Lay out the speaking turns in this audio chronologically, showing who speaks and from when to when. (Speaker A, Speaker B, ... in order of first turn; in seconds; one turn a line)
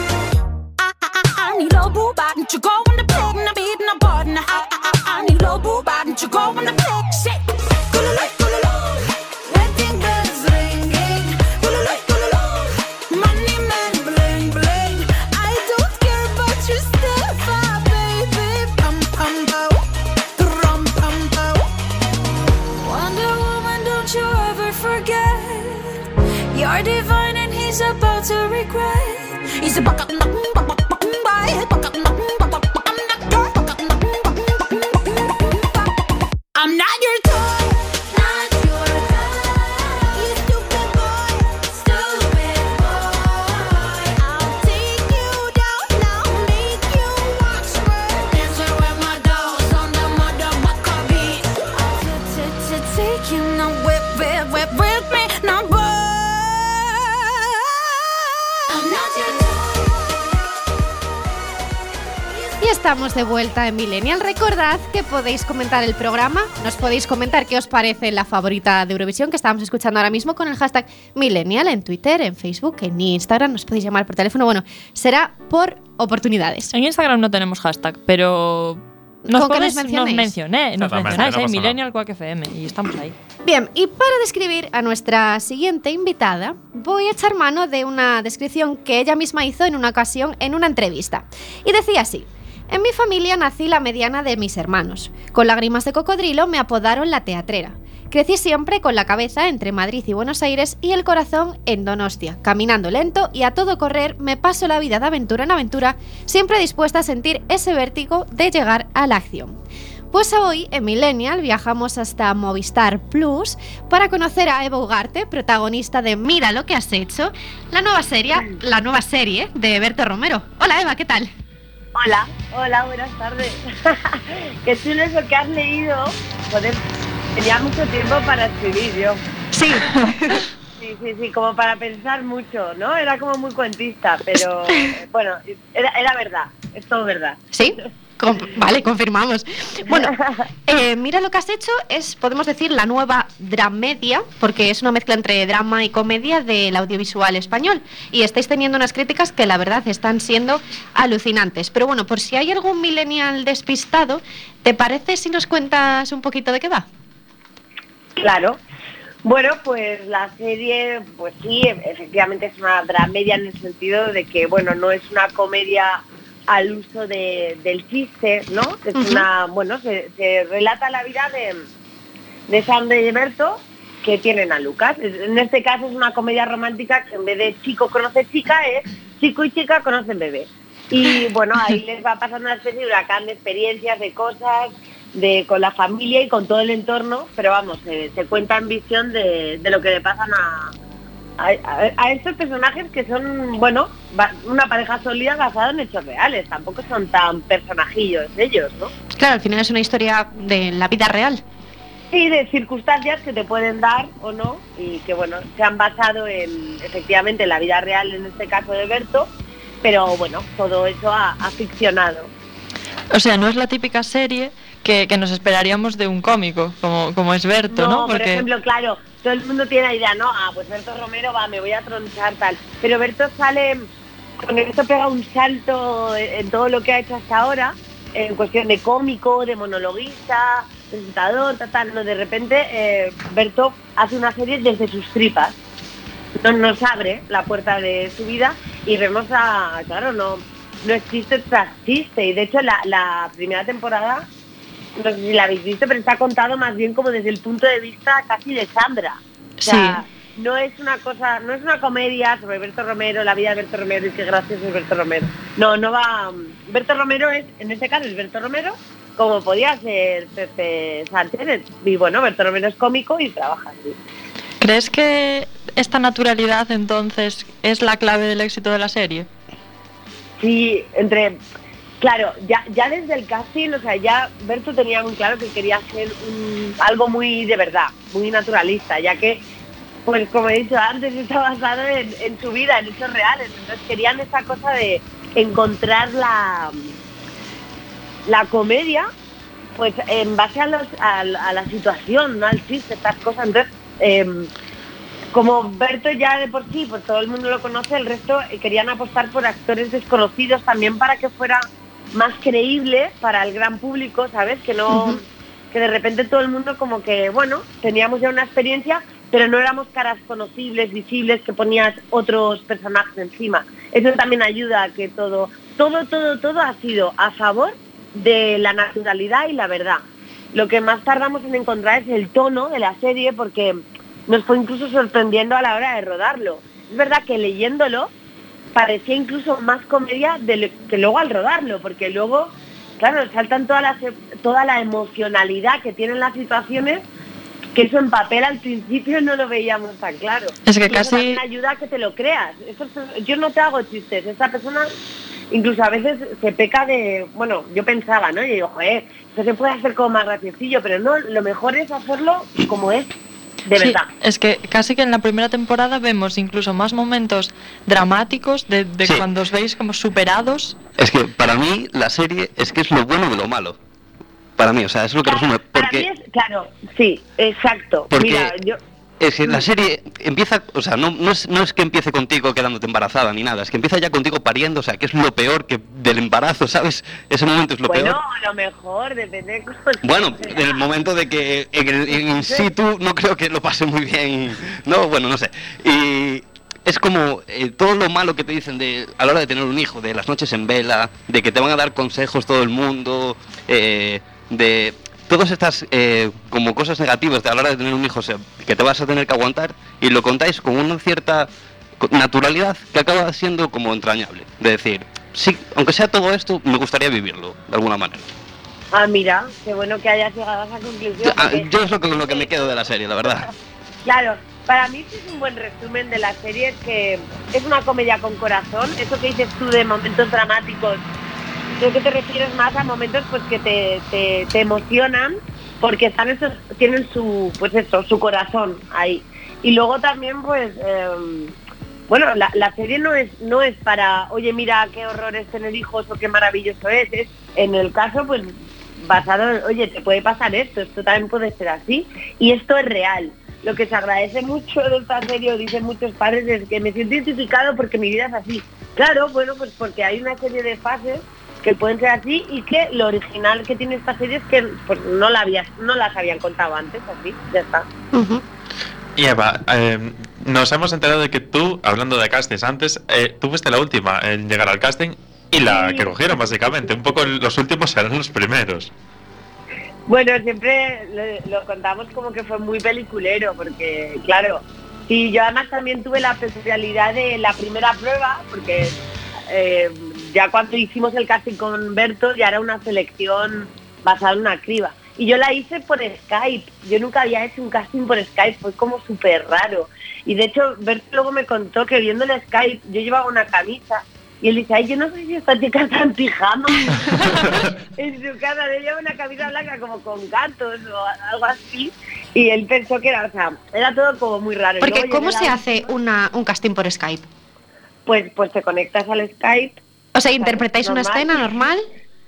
Speaker A: 0.8-19.8
Speaker A: 20.4-21.7
Speaker A: 22.8-26.0
Speaker A: 26.5-35.9
Speaker A: 36.5-57.6
Speaker A: 58.7-60.3
Speaker B: 62.6-76.7
Speaker C: 76.7-83.2
Speaker B: 79.3-80.3
Speaker D: 80.8-81.8
Speaker B: 83.5-109.6
Speaker B: 110.1-121.3
Speaker E: 122.0-126.8
Speaker E: 127.4-129.2
Speaker B: 129.5-130.5
Speaker E: 130.8-137.8
Speaker B: 137.5-140.1
Speaker E: 139.9-140.4
Speaker B: 140.7-156.9
Speaker E: 158.2-158.6
Speaker E: 159.2-171.7
Speaker B: 169.0-169.3
Speaker E: 172.5-190.7
Speaker E: 191.4-198.9
Speaker B: 199.2-201.4
Speaker E: 202.1-209.3
Speaker E: 209.8-212.3
Speaker C: 213.1-218.5
Speaker E: 217.7-223.9
Speaker E: 224.4-235.6
Speaker E: 236.4-244.3
Speaker E: 245.0-264.0
Speaker C: 249.6-250.0
Speaker C: 264.6-269.3
Speaker E: 270.4-271.4
Speaker E: 272.0-279.4
Speaker E: 280.1-286.9
Speaker E: 288.3-289.1
Speaker E: 289.8-294.5
Speaker E: 295.3-328.1
Speaker B: 304.9-305.2
Speaker E: 328.7-337.1
Speaker E: 337.8-344.9
Speaker C: 340.7-341.4
Speaker E: 345.5-353.1
Speaker E: 353.7-354.1
Speaker C: 353.8-360.8
Speaker F: 361.0-363.8
Speaker F: 364.6-366.1
Speaker E: 365.3-368.8
Speaker F: 368.1-368.5
Speaker F: 369.2-378.2
Speaker E: 377.9-380.8
Speaker F: 380.0-401.5
Speaker E: 382.4-382.7
Speaker F: 402.0-408.3
Speaker E: 408.9-412.7
Speaker F: 411.2-413.5
Speaker E: 414.1-421.0
Speaker E: 421.8-431.5
Speaker E: 432.1-457.9
Speaker B: 458.1-458.4
Speaker D: 459.2-468.9
Speaker E: 465.7-466.1
Speaker E: 470.1-479.0
Speaker E: 479.5-505.6
Speaker B: 504.8-507.3
Speaker E: 508.1-509.8
Speaker B: 510.1-511.9
Speaker E: 510.4-511.4